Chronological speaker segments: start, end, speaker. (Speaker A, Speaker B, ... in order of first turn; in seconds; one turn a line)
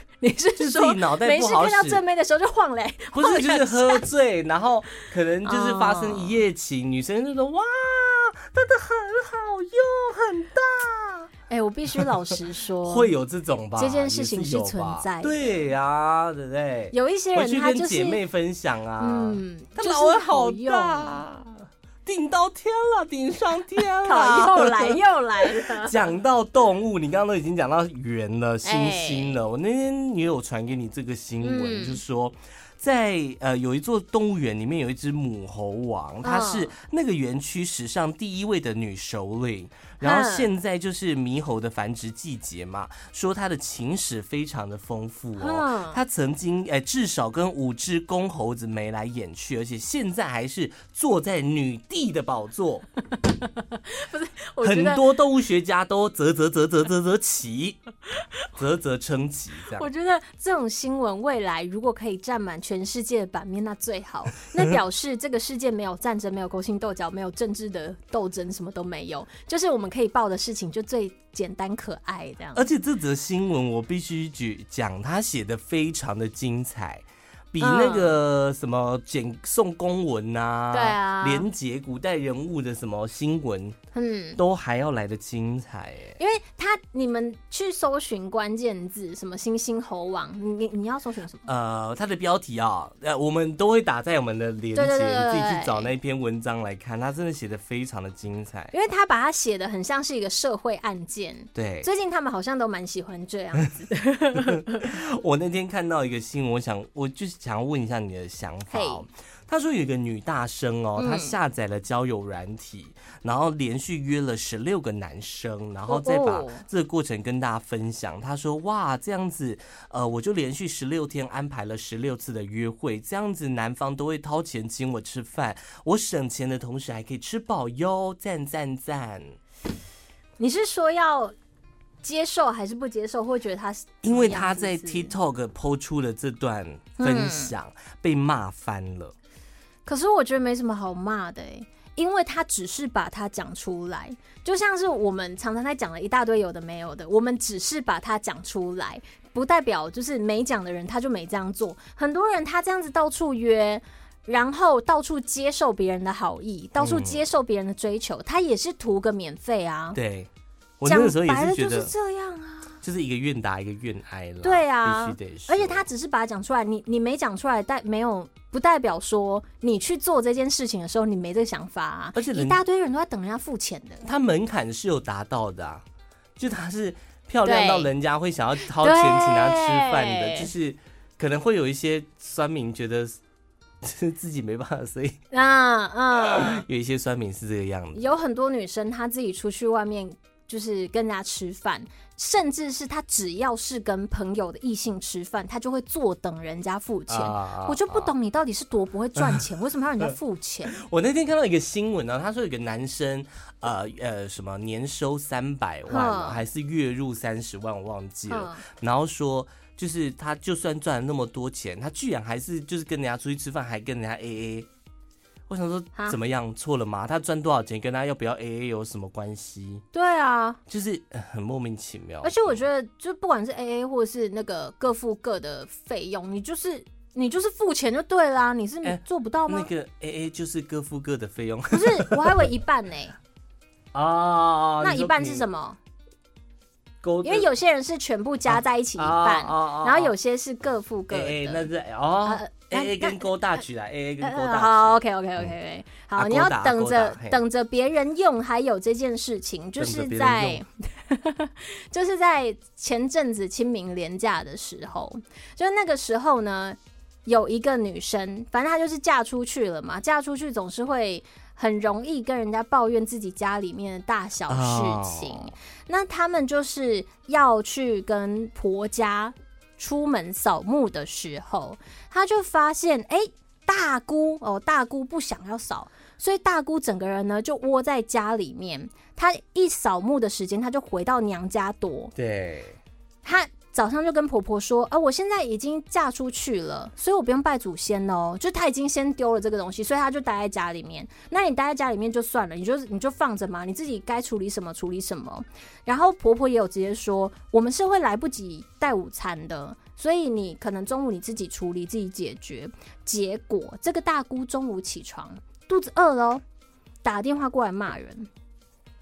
Speaker A: 0.2-4.0
Speaker B: 0.6-2.0
Speaker B: 3.2-11.3
Speaker A: 5.4-6.4
Speaker A: 11.5-13.2
Speaker B: 11.9-12.3
Speaker B: 12.8-52.9
Speaker A: 13.8-15.5
Speaker A: 16.9-18.2
Speaker A: 19.0-21.2
Speaker A: 24.1-26.1
Speaker A: 28.6-29.4
Speaker A: 31.4-32.0
Speaker A: 36.2-36.8
Speaker A: 40.0-40.5
Speaker A: 45.4-46.0
Speaker A: 53.2-55.0
Speaker B: 54.6-57.8
Speaker B: 58.5-59.9
Speaker A: 59.7-72.7
Speaker B: 72.5-83.8
Speaker A: 77.6-78.2
Speaker A: 80.7-81.5
Speaker A: 83.9-84.4
Speaker B: 84.4-86.2
Speaker A: 86.2-91.5
Speaker B: 91.5-98.7
Speaker A: 94.7-95.9
Speaker A: 98.7-104.9
Speaker B: 101.5-101.9
Speaker B: 104.3-129.4
Speaker A: 108.7-109.1
Speaker A: 111.0-111.3
Speaker A: 115.9-116.6
Speaker A: 130.4-131.3
Speaker A: 132.0-135.1
Speaker B: 134.0-139.1
Speaker A: 137.0-137.5
Speaker A: 139.8-160.0
Speaker B: 156.8-157.2
Speaker B: 159.9-161.9
Speaker A: 160.8-162.8
Speaker B: 162.8-165.9
Speaker A: 164.4-174.1
Speaker B: 172.2-172.6
Speaker B: 174.1-175.8
Speaker B: 176.4-183.2
Speaker A: 177.4-177.9
Speaker A: 178.7-180.5
Speaker B: 183.8-185.2
Speaker A: 185.3-186.6
Speaker B: 186.3-188.1
Speaker A: 187.9-200.8
Speaker B: 197.1-198.1
Speaker B: 199.2-199.5
Speaker B: 200.7-214.7
Speaker A: 205.9-206.4
Speaker A: 208.3-208.7
Speaker B: 215.5-219.8
Speaker A: 219.9-220.6
Speaker B: 220.7-222.6
Speaker A: 222.2-229.7
Speaker B: 228.8-232.5
Speaker A: 231.7-233.2
Speaker B: 233.9-235.5
Speaker A: 234.8-235.8
Speaker B: 237.0-237.5
Speaker A: 237.2-241.7
Speaker B: 238.5-240.1
Speaker B: 241.1-245.5
Speaker A: 242.2-243.4
Speaker A: 244.2-282.1
Speaker B: 246.2-247.4
Speaker B: 249.8-250.6
Speaker B: 264.5-265.5
Speaker B: 282.2-282.8
Speaker A: 283.2-306.4
Speaker A: 307.0-308.3